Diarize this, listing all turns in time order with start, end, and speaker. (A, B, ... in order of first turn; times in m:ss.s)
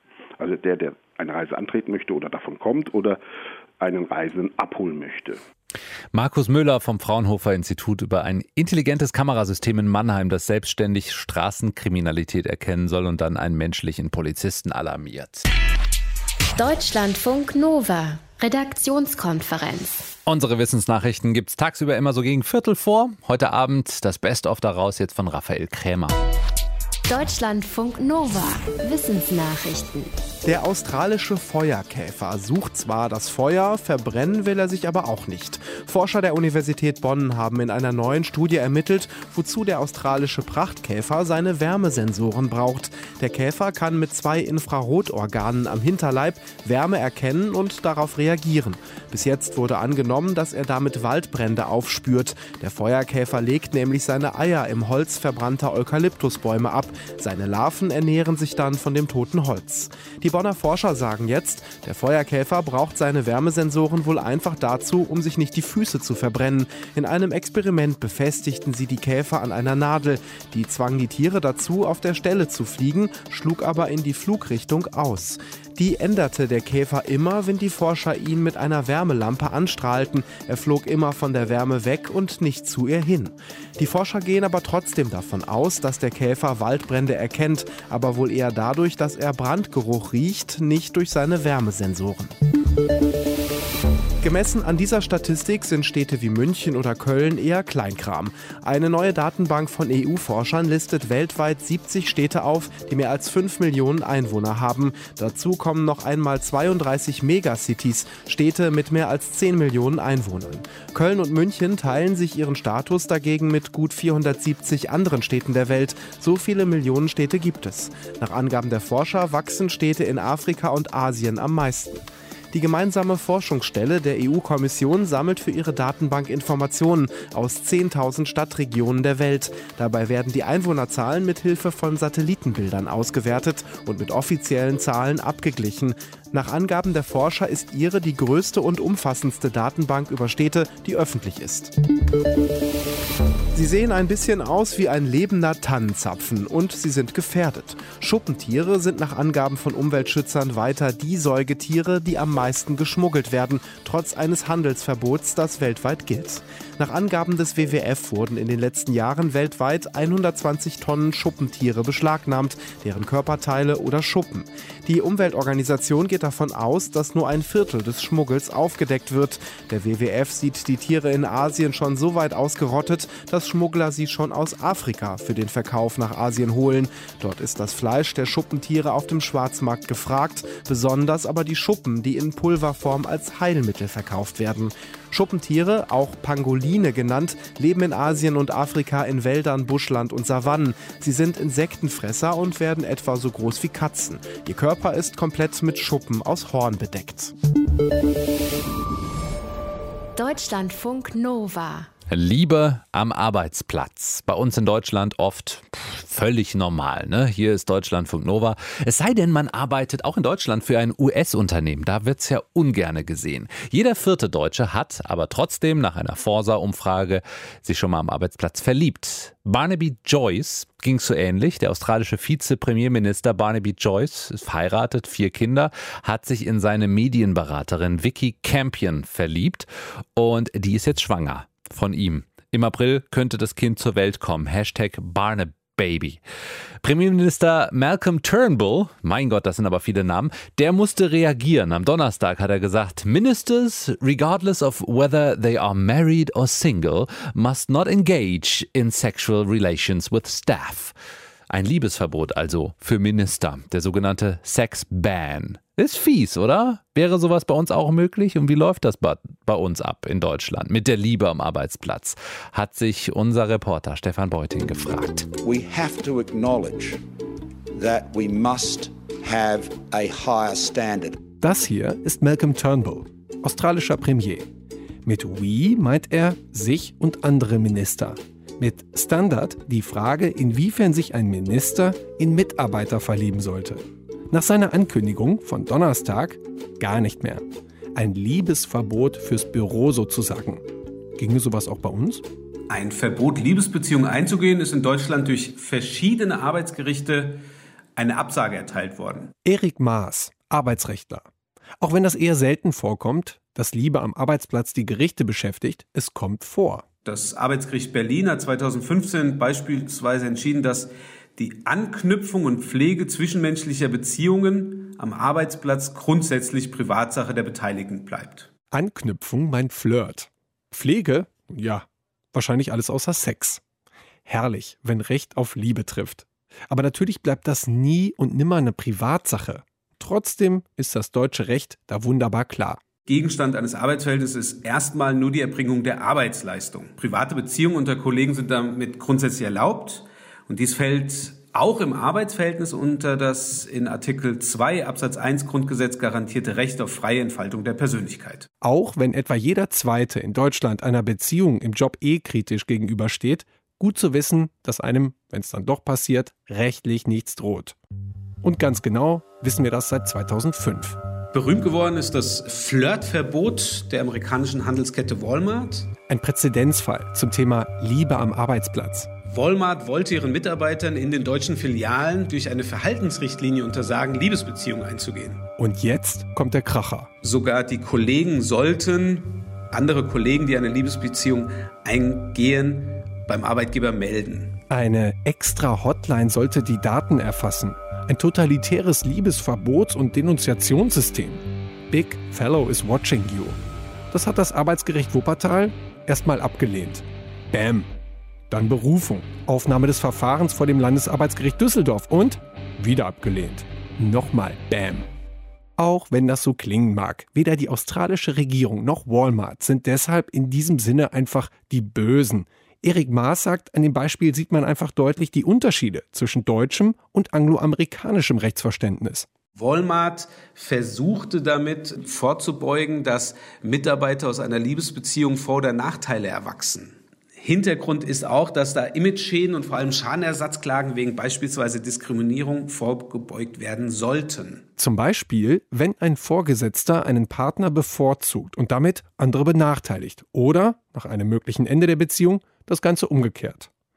0:00.4-0:03.2 A
0:03.8-0:05.4 A
0:06.1-0:15.4 B
0:16.6-0:20.1 C
0:20.2-0:26.2 B
0:27.1-0:30.2 C
0:30.4-1:32.3 D
1:34.2-2:21.7 D
2:23.5-3:17.3 D
3:20.1-3:21.9 C
3:22.1-3:56.2 B
3:56.8-4:10.9 B
4:11.5-4:25.3 B
4:25.4-4:27.0 E
4:27.7-4:31.3 E
4:31.3-4:34.5 F
4:35.0-4:50.6 F
4:51.2-4:52.2 F
4:52.7-4:57.4 G
4:58.0-4:59.3 G
4:59.4-5:01.3 F
5:01.8-5:06.9 F
5:07.0-5:18.5 G
5:18.7-5:23.6 F
5:24.2-5:32.9 F
5:33.0-5:48.5 G
5:48.6-5:57.8 F
5:58.4-6:01.0 F
6:01.3-6:05.9 G
6:06.1-6:09.1 F
6:09.2-6:15.4 G
6:15.6-6:17.1 F
6:17.2-6:24.6 G
6:24.7-6:33.6 F
6:34.1-6:37.9 F
6:38.5-6:45.1 F
6:45.8-6:59.3 F
6:59.5-7:14.6 G
7:14.8-7:23.7 F